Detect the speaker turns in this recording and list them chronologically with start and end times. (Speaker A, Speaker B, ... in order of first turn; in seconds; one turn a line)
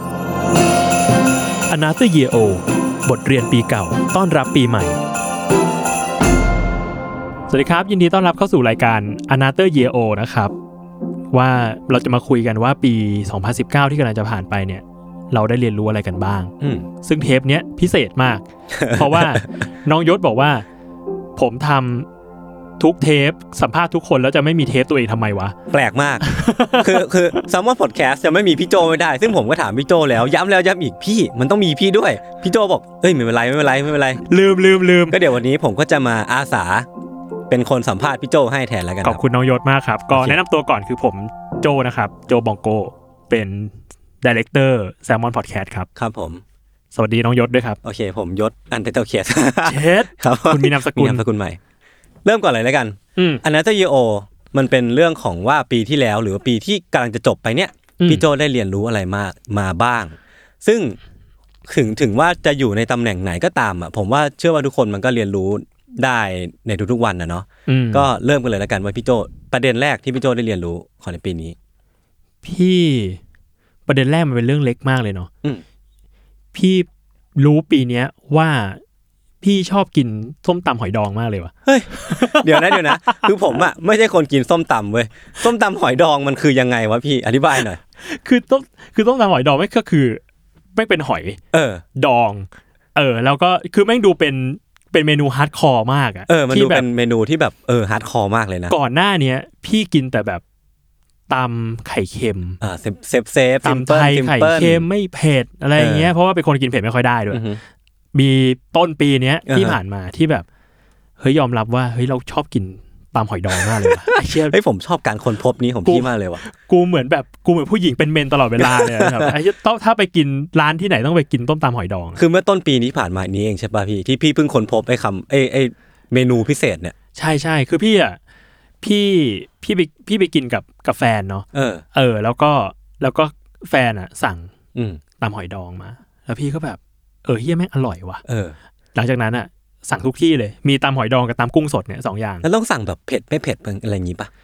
Speaker A: 1.7-5.0
Speaker A: 7.5-10.5
Speaker A: 11.3-20.6
Speaker B: 16.6-16.9
Speaker B: 18.7-19.5
Speaker A: 21.4-22.1
Speaker A: 22.8-25.6
Speaker B: 25.7-26.2
Speaker A: 26.2-27.1
Speaker B: 26.8-34.2
Speaker A: 34.3-35.2
Speaker B: 35.1-36.9
Speaker B: 37.5-39.2
Speaker A: 39.0-45.9
Speaker B: 40.1-40.4
Speaker B: 46.0-46.4
Speaker A: 46.9-47.8
Speaker B: 47.8-51.6
Speaker A: 49.6-51.2
Speaker B: 52.2-61.0
Speaker A: 53.1-53.4
Speaker A: 58.0-58.3
Speaker B: 61.7-71.5
Speaker A: 67.7-68.1
Speaker A: 72.4-73.2
Speaker A: 73.9-75.3
Speaker A: 76.5-78.8
Speaker A: 79.4-83.6
Speaker B: 81.6-87.8
Speaker A: 88.0-90.2
Speaker A: 90.7-91.4
Speaker B: 91.5-91.8
Speaker A: 91.9-96.9
Speaker B: 96.3-98.8
Speaker A: 98.7-100.4
Speaker A: 101.3-102.6
Speaker B: 102.6-104.9
Speaker A: 103.6-107.5
Speaker B: 105.8-106.1
Speaker B: 107.3-107.6
Speaker A: 108.1-110.5
Speaker B: 109.5-109.8
Speaker A: 111.2-114.5
Speaker B: 113.6-116.4
Speaker A: 115.8-122.2
Speaker B: 118.6-119.4
Speaker B: 122.2-126.9
Speaker A: 127.1-128.2
Speaker A: 128.8-134.5
Speaker B: 131.5-131.8
Speaker B: 134.7-135.0
Speaker A: 135.2-138.2
Speaker B: 138.2-138.6
Speaker A: 138.9-142.4
Speaker B: 142.4-144.3